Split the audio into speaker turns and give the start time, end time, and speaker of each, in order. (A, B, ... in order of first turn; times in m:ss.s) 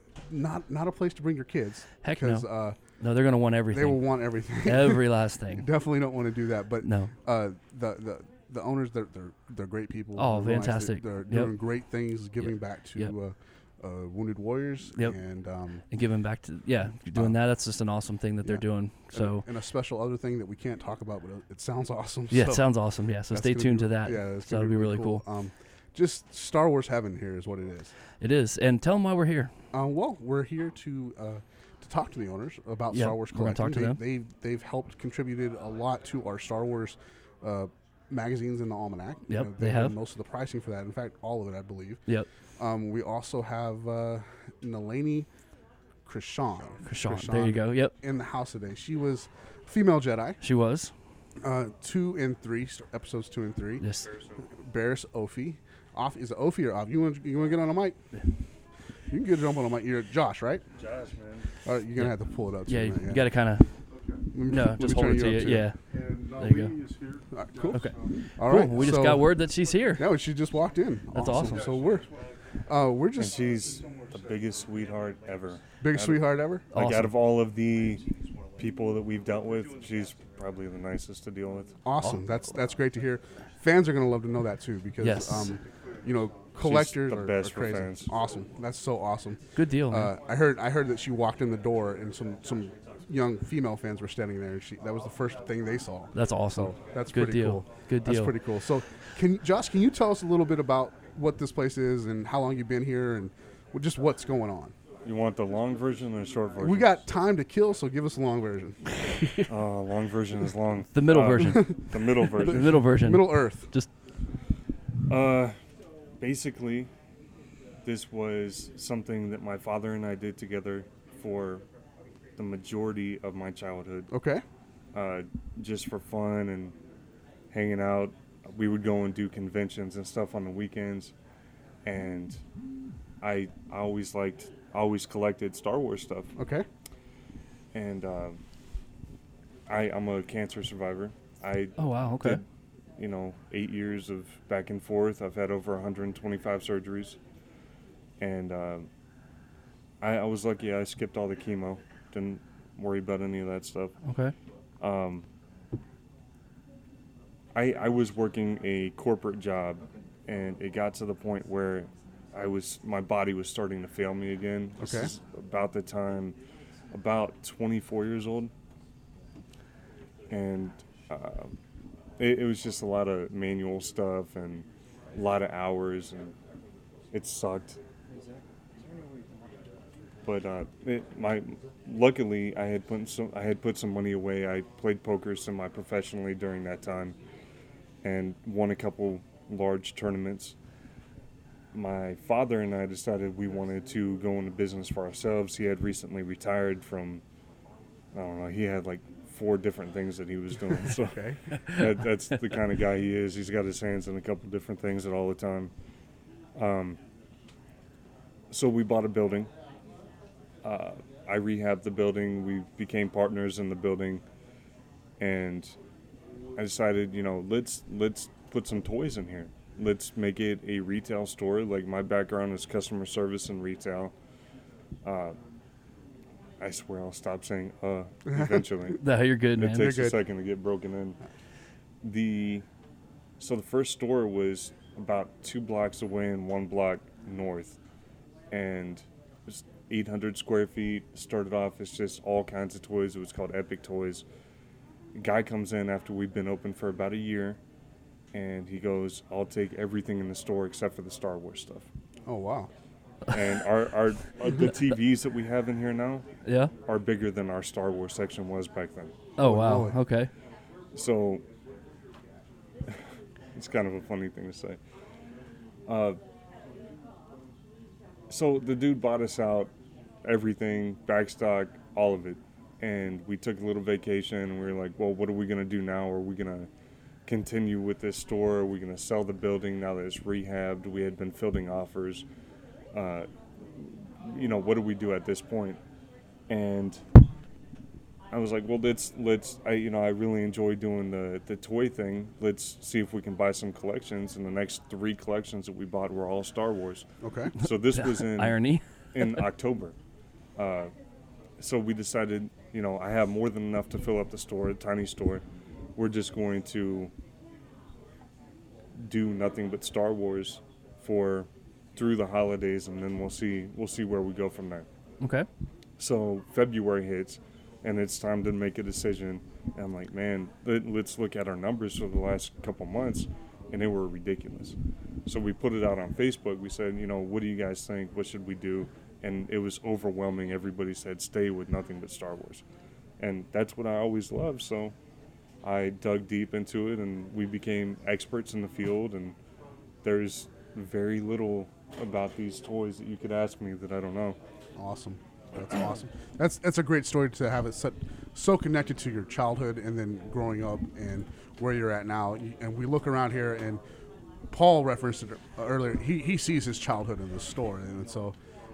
0:00.3-0:02.8 A
0:02.0-0:02.5 B
0:03.0-0:04.0 B
0:03.7-0:15.8 A
0:04.6-0:05.7 B
0:06.8-0:07.1 B
0:10.2-0:11.5 B
0:12.5-0:13.1 B
0:15.9-0:19.5 B
0:18.4-0:22.7 A
0:22.3-0:25.2 B
0:23.3-0:27.9 A
0:28.2-0:29.5 B
0:29.7-0:42.0 A
0:32.9-0:34.0 B
0:39.3-0:40.0 B
0:42.6-0:45.3 A
0:46.0-0:50.4 A
0:46.9-0:47.9 B
0:50.4-0:50.9 B
0:51.4-0:53.8 A
0:53.8-0:54.1 B
0:54.6-0:58.0 A
0:59.1-1:00.6 A
1:00.8-1:01.5 C
1:01.6-1:03.3 A
1:02.7-1:03.7 B
1:04.3-1:05.7 A
1:04.5-1:06.8 B
1:07.3-1:07.8 A
1:07.7-1:10.1 B
1:08.4-1:09.4 A
1:09.9-1:12.1 A
1:11.2-1:11.6 B
1:12.6-1:13.4 A
1:13.2-1:21.8 C
1:15.8-1:16.7 A
1:16.7-1:17.1 B
1:21.8-1:44.7 A
1:25.0-1:25.6 B
1:26.6-1:28.1 C
1:29.6-1:30.1 B
1:36.2-1:38.4 B
1:45.0-1:47.0 C
1:46.6-1:48.8 A
1:49.5-1:52.8 C
1:51.0-1:51.8 B
1:51.4-1:51.7 A
1:52.4-1:53.7 A
1:52.4-1:53.9 B
1:55.1-1:55.6 C
1:56.2-1:56.9 C
1:57.8-2:01.6 C
2:02.4-2:04.1 C
2:04.1-2:04.4 A
2:04.9-2:06.8 C
2:07.5-2:11.1 C
2:11.8-2:12.4 C
2:13.2-2:16.3 C
2:16.4-2:16.7 A
2:17.7-2:18.4 C
2:19.7-2:22.4 C
2:21.8-2:22.4 B
2:23.0-2:27.2 C
2:28.2-2:28.9 C
2:30.0-2:34.0 C
2:34.0-2:34.3 B
2:34.8-2:35.3 C
2:37.6-2:46.4 C
2:44.8-2:45.1 A
2:46.9-2:48.5 C
2:50.3-2:51.5 C
2:52.2-2:56.4 C
2:57.1-2:59.3 C
3:00.2-3:07.2 C
3:08.0-3:10.6 C
3:11.7-3:17.2 C
3:18.1-3:25.7 C
3:21.1-3:21.4 A
3:26.6-3:27.0 C
3:28.5-3:29.5 C
3:30.6-3:34.2 C
3:35.2-3:35.8 C
3:36.6-3:44.1 C
3:45.0-3:45.4 C
3:46.6-3:49.0 C
3:48.3-3:48.7 A
3:49.0-3:50.0 B
3:49.6-3:51.2 C
3:49.8-3:50.2 A
3:52.0-3:52.7 C
3:53.4-3:57.8 C
3:58.5-4:04.2 C
4:05.2-4:07.6 C
4:08.3-4:11.9 C
4:12.3-4:12.7 A
4:13.3-4:16.3 C
4:16.4-4:16.7 B
4:16.9-4:19.1 C
4:19.4-4:20.3 B
4:19.4-4:20.0 A
4:21.0-4:21.4 C
4:23.6-4:24.8 C
4:25.9-4:26.2 C
4:28.3-4:29.7 C
4:30.2-4:36.7 C
4:37.3-4:42.2 C
4:42.9-4:45.8 C
4:46.5-4:47.0 C
4:48.3-4:57.0 C
4:57.2-4:57.5 A
4:57.6-4:58.6 C
4:57.6-4:59.4 B
4:59.1-5:00.0 C
5:00.6-5:00.9 C
5:01.6-5:05.4 C
5:06.0-5:07.1 C
5:09.0-5:14.9 C
5:15.2-5:15.5 B
5:16.0-5:32.6 C
5:33.2-5:35.0 C
5:35.6-5:39.4 C
5:40.0-5:44.4 C
5:44.8-5:53.8 A
5:54.5-5:58.4 A